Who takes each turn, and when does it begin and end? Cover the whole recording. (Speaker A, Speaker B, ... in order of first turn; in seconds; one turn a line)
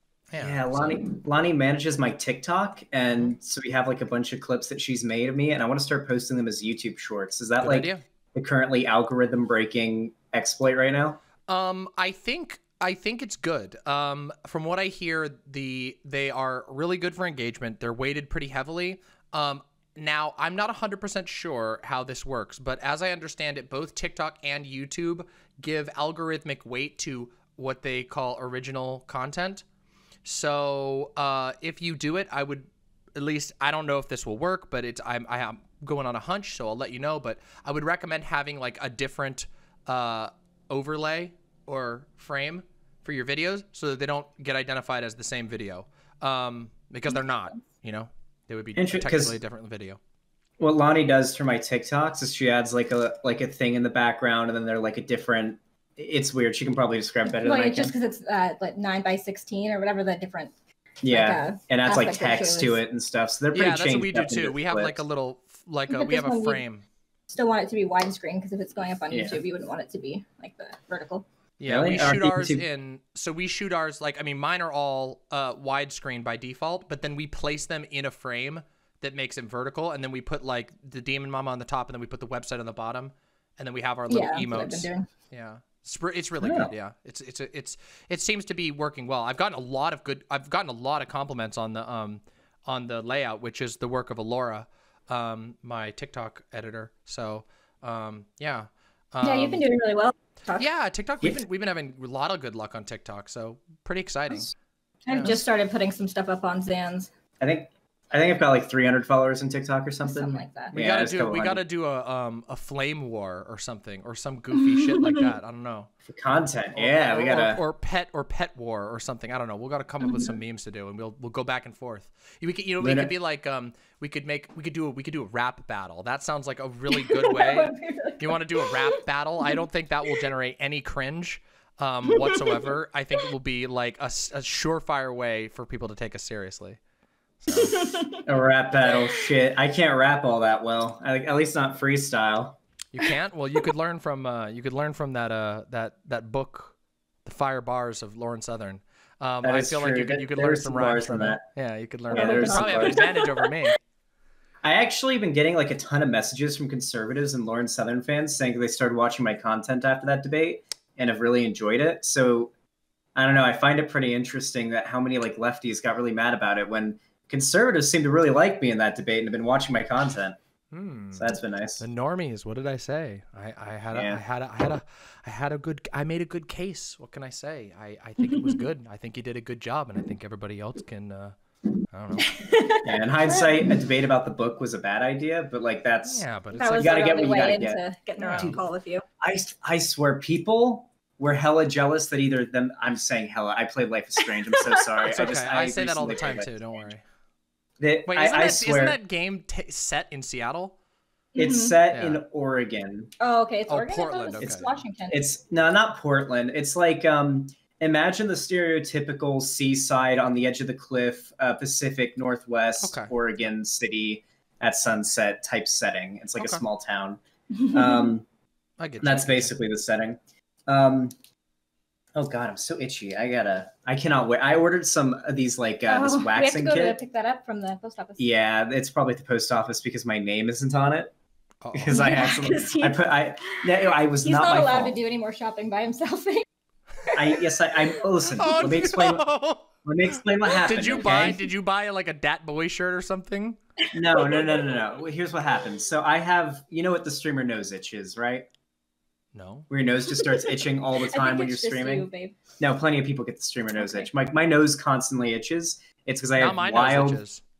Speaker A: 0.3-1.0
Speaker B: 0.4-11.2
Speaker A: 7.6-8.0
Speaker A: 11.5-29.6
Speaker A: 30.2-50.0
Speaker B: 48.8-49.4
Speaker B: 50.6-57.9
Speaker C: 57.3-60.5
Speaker B: 61.0-65.0
Speaker C: 61.1-62.8
Speaker A: 63.5-66.8
Speaker C: 65.9-66.6
Speaker C: 67.3-71.2
Speaker B: 69.1-69.4
Speaker A: 71.6-99.7
Speaker B: 71.7-72.6
Speaker C: 84.1-85.1
Speaker B: 86.4-86.7
Speaker C: 99.2-100.7
Speaker A: 100.6-104.5
Speaker C: 105.1-107.1
Speaker A: 105.1-105.4
Speaker B: 107.4-111.6
Speaker C: 110.0-110.8
Speaker A: 110.7-115.9
Speaker C: 114.6-115.3
Speaker B: 116.1-117.6
Speaker A: 116.8-136.8
Speaker C: 120.0-120.3
Speaker B: 122.8-123.1
Speaker C: 126.9-129.6
Speaker C: 132.1-132.6
Speaker A: 137.4-138.0
Speaker C: 137.5-138.2
Speaker B: 138.3-142.6
Speaker C: 138.8-139.2
Speaker A: 142.9-153.8
Speaker B: 149.4-151.4
Speaker B: 152.1-153.0
Speaker C: 152.1-153.8
Speaker B: 154.6-162.5
Speaker B: 163.2-170.4
Speaker A: 170.7-181.3
Speaker B: 171.1-171.8
Speaker B: 173.9-174.2
Speaker A: 181.9-182.4
Speaker C: 182.2-183.5
Speaker B: 182.8-186.2
Speaker A: 186.1-187.3
Speaker C: 186.5-189.0
Speaker B: 186.8-187.8
Speaker A: 188.2-188.6
Speaker B: 188.3-188.6
Speaker B: 189.2-196.5
Speaker A: 195.0-197.0
Speaker B: 197.8-199.0
Speaker A: 198.1-200.8
Speaker C: 201.3-201.8
Speaker B: 201.4-203.1
Speaker A: 201.9-202.2
Speaker C: 203.2-205.2
Speaker A: 203.7-204.7
Speaker B: 204.4-217.2
Speaker A: 212.8-213.1
Speaker C: 217.6-218.1
Speaker B: 217.7-218.3
Speaker A: 218.8-219.5
Speaker B: 219.0-221.1
Speaker B: 222.2-227.0
Speaker C: 225.9-228.3
Speaker B: 228.2-231.1
Speaker A: 231.6-232.4
Speaker B: 231.7-235.0
Speaker C: 231.9-236.4
Speaker C: 237.1-237.4
Speaker B: 237.1-239.2
Speaker A: 238.4-239.7
Speaker B: 239.8-241.4
Speaker A: 240.6-243.6
Speaker B: 243.9-248.5
Speaker C: 244.1-244.7
Speaker A: 249.3-249.7
Speaker B: 249.7-252.1
Speaker C: 250.2-252.4
Speaker B: 252.6-257.2
Speaker C: 253.8-254.1
Speaker A: 256.4-257.4